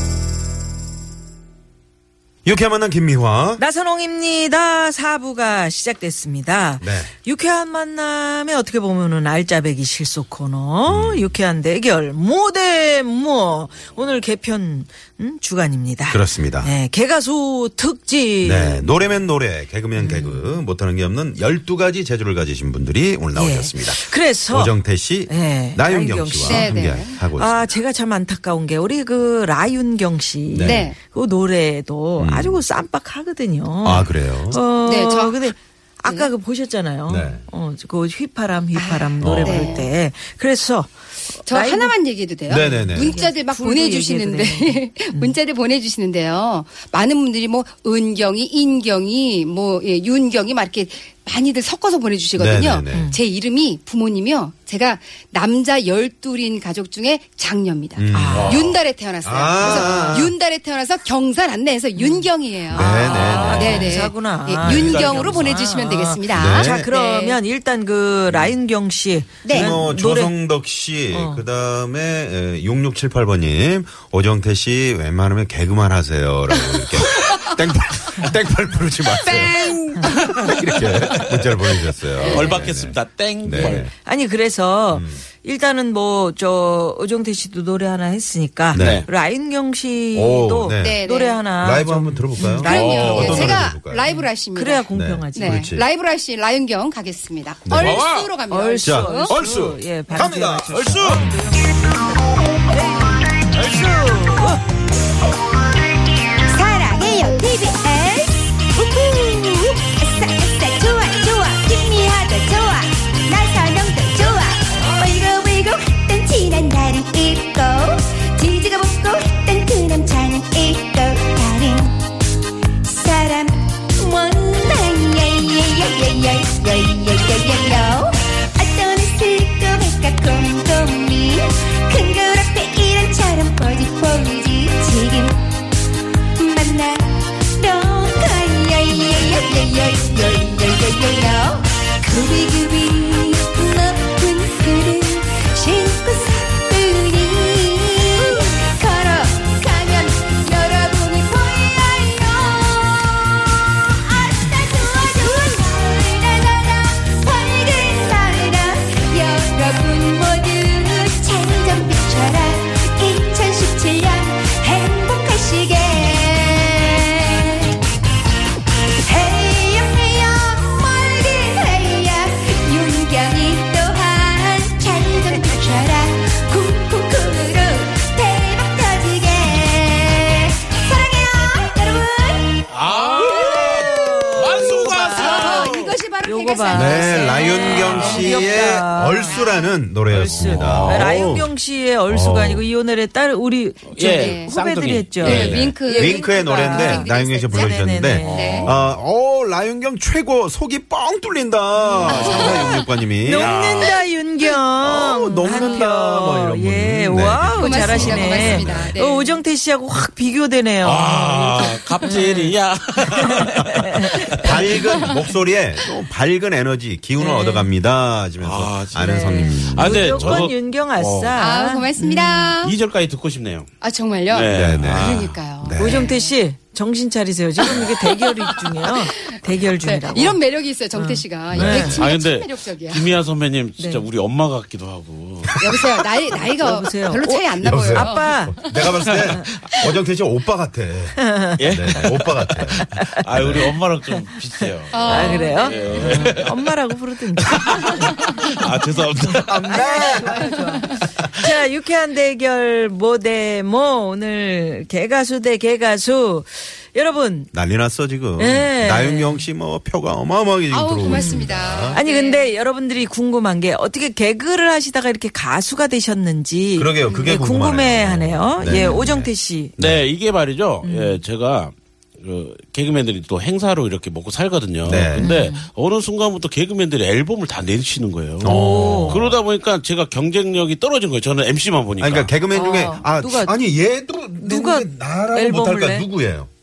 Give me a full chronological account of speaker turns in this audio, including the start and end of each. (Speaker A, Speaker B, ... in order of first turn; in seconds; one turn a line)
Speaker A: 2.5-3.6
Speaker B: 3.6-18.9
Speaker A: 6.8-7.1
Speaker A: 10.9-11.4
Speaker A: 16.1-16.7
Speaker A: 18.4-27.8
Speaker B: 19.9-20.6
Speaker B: 23.3-42.0
Speaker C: 26.4-27.1
Speaker A: 30.5-30.9
Speaker C: 30.6-31.0
Speaker A: 32.2-32.6
Speaker A: 33.8-34.6
Speaker C: 34.8-35.5
Speaker C: 36.1-36.3
Speaker A: 37.1-37.4
Speaker C: 38.7-39.9
Speaker A: 39.2-39.7
Speaker C: 41.5-67.4
Speaker B: 42.5-45.4
Speaker A: 42.5-43.2
Speaker A: 52.4-53.1
Speaker B: 52.9-53.2
Speaker A: 58.0-60.3
Speaker B: 58.1-58.6
Speaker D: 58.3-58.7
Speaker B: 59.6-60.2
Speaker B: 62.0-70.3
Speaker A: 62.7-64.0
Speaker A: 64.6-65.0
Speaker D: 64.7-65.4
Speaker A: 66.3-66.9
Speaker A: 68.3-68.6
Speaker A: 69.5-83.9
Speaker B: 71.1-71.5
Speaker C: 76.5-77.5
Speaker C: 79.1-80.6
Speaker C: 82.2-82.5
Speaker D: 82.2-83.9
Speaker B: 83.5-95.8
Speaker A: 84.9-85.2
Speaker A: 88.7-89.1
Speaker D: 88.7-89.1
Speaker A: 90.1-91.0
Speaker C: 90.8-91.5
Speaker A: 91.6-94.1
Speaker C: 92.6-99.3
Speaker D: 92.7-93.6
Speaker A: 94.9-95.9
Speaker A: 97.7-98.0
Speaker D: 97.8-98.3
Speaker B: 98.5-102.1
Speaker A: 98.8-101.4
Speaker D: 99.4-99.6
Speaker D: 100.7-101.3
Speaker B: 102.7-104.6
Speaker E: 106.4-108.4
Speaker E: 109.2-122.0
Speaker E: 122.8-135.6
Speaker C: 134.1-134.4
Speaker C: 136.4-141.3
Speaker E: 137.9-140.6
Speaker E: 141.3-142.6
Speaker C: 142.0-152.2
Speaker E: 148.0-148.6
Speaker E: 149.5-150.3
Speaker E: 151.4-167.7
Speaker E: 169.0-182.6
Speaker D: 182.7-185.9
Speaker C: 183.0-189.7
Speaker B: 183.1-189.4
Speaker A: 186.7-191.5
Speaker D: 187.8-188.2
Speaker B: 190.1-198.7
Speaker D: 190.2-191.5
Speaker A: 192.1-192.7
Speaker D: 193.9-195.6
Speaker C: 194.0-194.5
Speaker A: 195.2-203.8
Speaker C: 195.2-198.7
Speaker B: 201.8-212.6
Speaker C: 202.0-202.9
Speaker D: 203.4-204.0
Speaker A: 204.8-208.9
Speaker C: 207.6-209.4
Speaker D: 210.8-215.1
Speaker B: 213.1-215.1
Speaker A: 214.2-220.5
Speaker B: 217.2-217.8
Speaker D: 218.4-221.4
Speaker B: 219.0-222.6
Speaker C: 221.4-222.8
Speaker D: 222.6-223.7
Speaker C: 223.8-226.3
Speaker D: 224.3-225.4
Speaker A: 224.5-226.1
Speaker B: 225.8-230.4
Speaker C: 227.6-228.9
Speaker C: 229.6-233.2
Speaker B: 230.9-232.0
Speaker A: 231.5-232.1
Speaker D: 231.5-235.6
Speaker B: 233.8-234.1
Speaker C: 235.6-238.9
Speaker A: 235.6-235.9
Speaker B: 236.4-238.8
Speaker A: 237.6-243.7
Speaker D: 239.1-239.4
Speaker B: 241.2-241.6
Speaker D: 241.6-242.3
Speaker B: 242.7-243.6
Speaker D: 242.8-246.5
Speaker C: 244.9-246.2
Speaker B: 245.0-248.4
Speaker A: 245.8-246.4
Speaker D: 247.4-249.8
Speaker A: 249.4-250.6
Speaker B: 249.6-257.5
Speaker A: 257.5-262.0
Speaker B: 258.4-259.5
Speaker C: 260.7-262.5
Speaker B: 261.1-269.8
Speaker A: 266.8-270.1
Speaker C: 268.7-269.0
Speaker D: 269.8-282.3
Speaker B: 270.8-271.2
Speaker A: 274.8-275.3
Speaker B: 275.2-275.7
Speaker A: 278.4-279.4
Speaker B: 278.4-279.2
Speaker A: 282.0-286.5
Speaker B: 282.5-283.6
Speaker B: 284.4-286.1